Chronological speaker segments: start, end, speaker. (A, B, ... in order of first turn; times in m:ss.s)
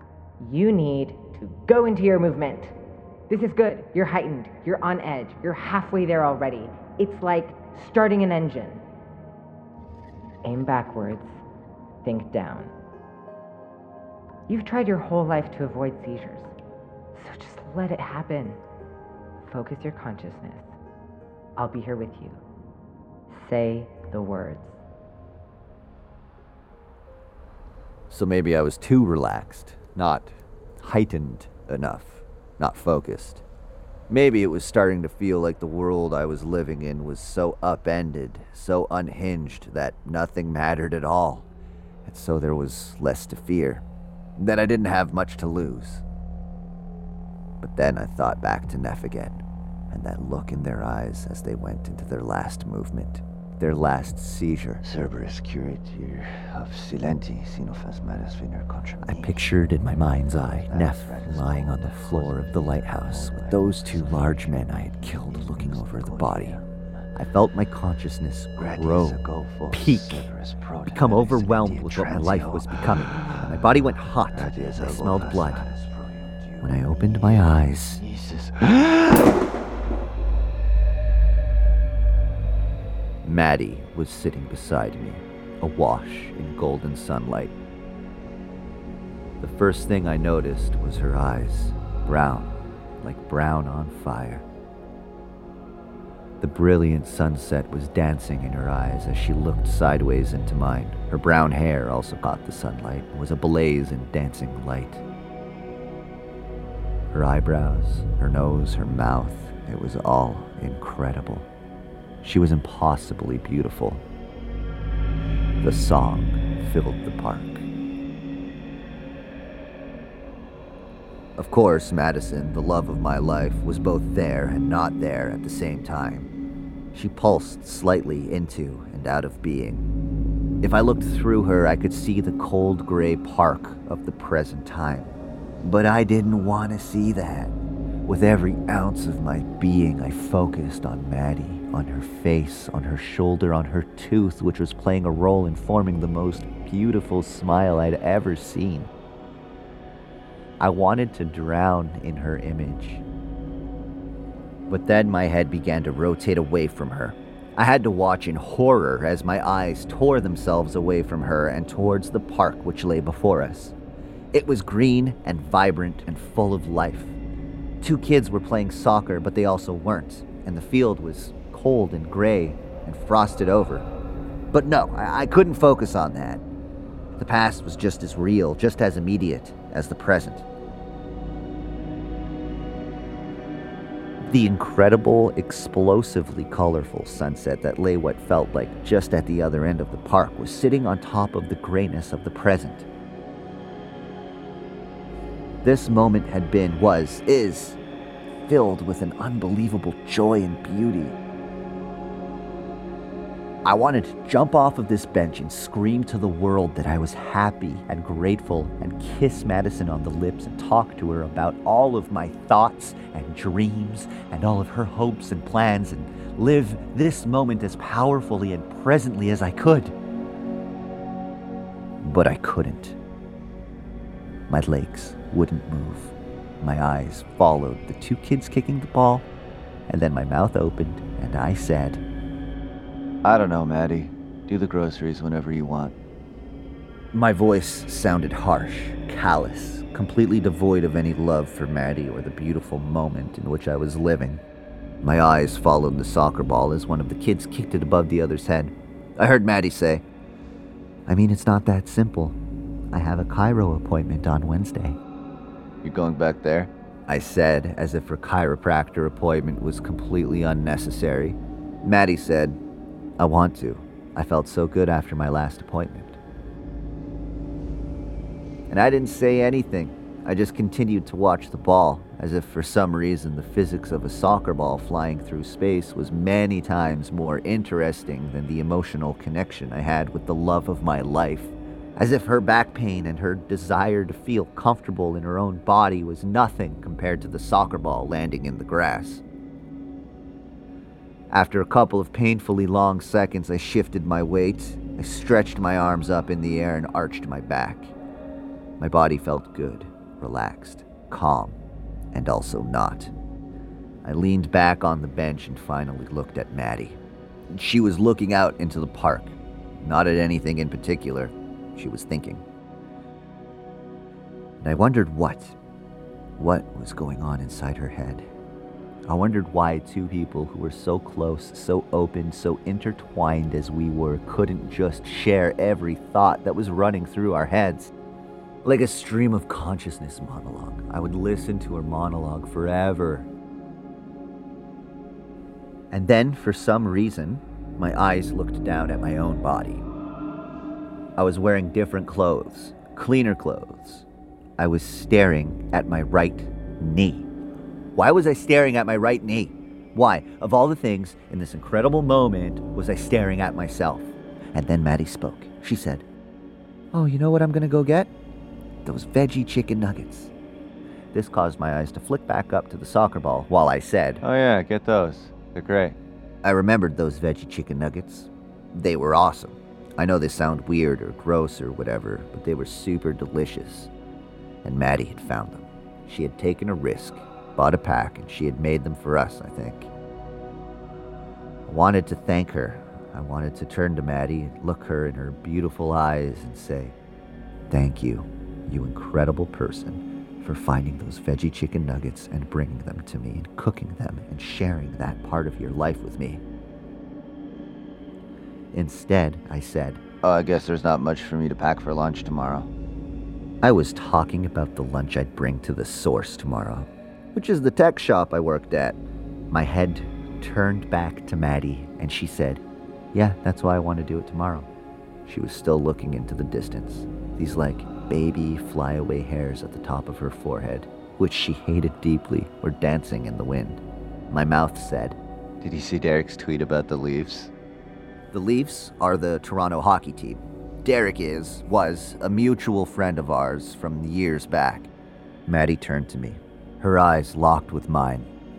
0:00.4-0:02.8 A
0:03.3-0:08.8 A
0:10.4-0:11.4 A
0:12.0-0:12.7 A
0:14.5-0:16.5 A
0:17.1-0:18.6 A
0:19.4-0:20.7 A
0:21.6-0:22.4 A
0:23.3-0:24.8 A
0:28.1-0:33.4 B
0:34.1-0:41.5 B
0:42.0-0:43.8 B
0:44.4-0:46.0 B
0:47.6-0:54.8 B
0:54.8-0:59.4 C
0:59.0-1:06.6 B
1:00.7-1:06.8 C
1:07.1-1:10.2 B
1:08.6-1:19.4 C
1:10.8-1:15.7 B
1:16.6-1:18.0 B
1:23.2-1:27.5 B
1:29.4-1:34.4 B
1:36.4-1:45.0 B
1:47.1-1:51.5 B
1:52.2-1:54.0 B
1:55.6-1:57.6 B
2:01.4-2:06.3 B
2:06.9-2:09.8 B
2:10.6-2:17.5 B
2:18.0-2:28.9 B
2:30.6-2:33.0 B
2:34.7-2:43.7 B
2:44.3-2:47.2 B
2:47.8-2:53.9 B
2:54.5-2:56.4 B
2:57.2-3:00.4 B
3:04.2-3:12.9 B
3:15.6-3:17.8 B
3:18.4-3:21.2 B
3:23.6-3:39.9 B
3:42.0-3:43.0 B
3:44.5-3:49.3 B
3:49.9-3:52.0 B
3:53.2-3:55.9 C
3:57.1-4:04.4 B
4:05.0-4:10.0 B
4:11.1-4:12.4 B
4:12.9-4:15.0 B
4:15.8-4:16.7 C
4:15.8-4:22.6 B
4:23.2-4:26.2 B
4:28.7-4:49.2 B
4:51.3-4:57.9 B
4:58.8-5:01.6 B
5:02.1-5:03.1 B
5:04.0-5:07.0 B
5:07.5-5:12.4 B
5:14.6-5:15.6 B
5:16.4-5:18.3 B
5:19.1-5:27.9 B
5:28.6-5:33.3 B
5:35.9-5:39.8 B
5:41.2-5:44.0 B
5:44.6-5:47.3 B
5:47.9-5:56.0 B
5:56.9-5:58.1 B
5:58.8-6:00.3 B
6:01.1-6:04.2 B
6:04.2-6:06.0 C
6:06.4-6:13.9 B
6:14.6-6:19.9 B
6:21.7-6:27.0 B
6:27.7-6:36.4 B
6:38.7-6:40.2 B
6:40.2-6:42.7 C
6:43.6-6:52.6 B
6:53.1-6:54.7 B
6:55.2-7:05.2 B
7:05.6-7:07.5 C
7:08.3-7:14.9 B
7:15.5-7:18.3 B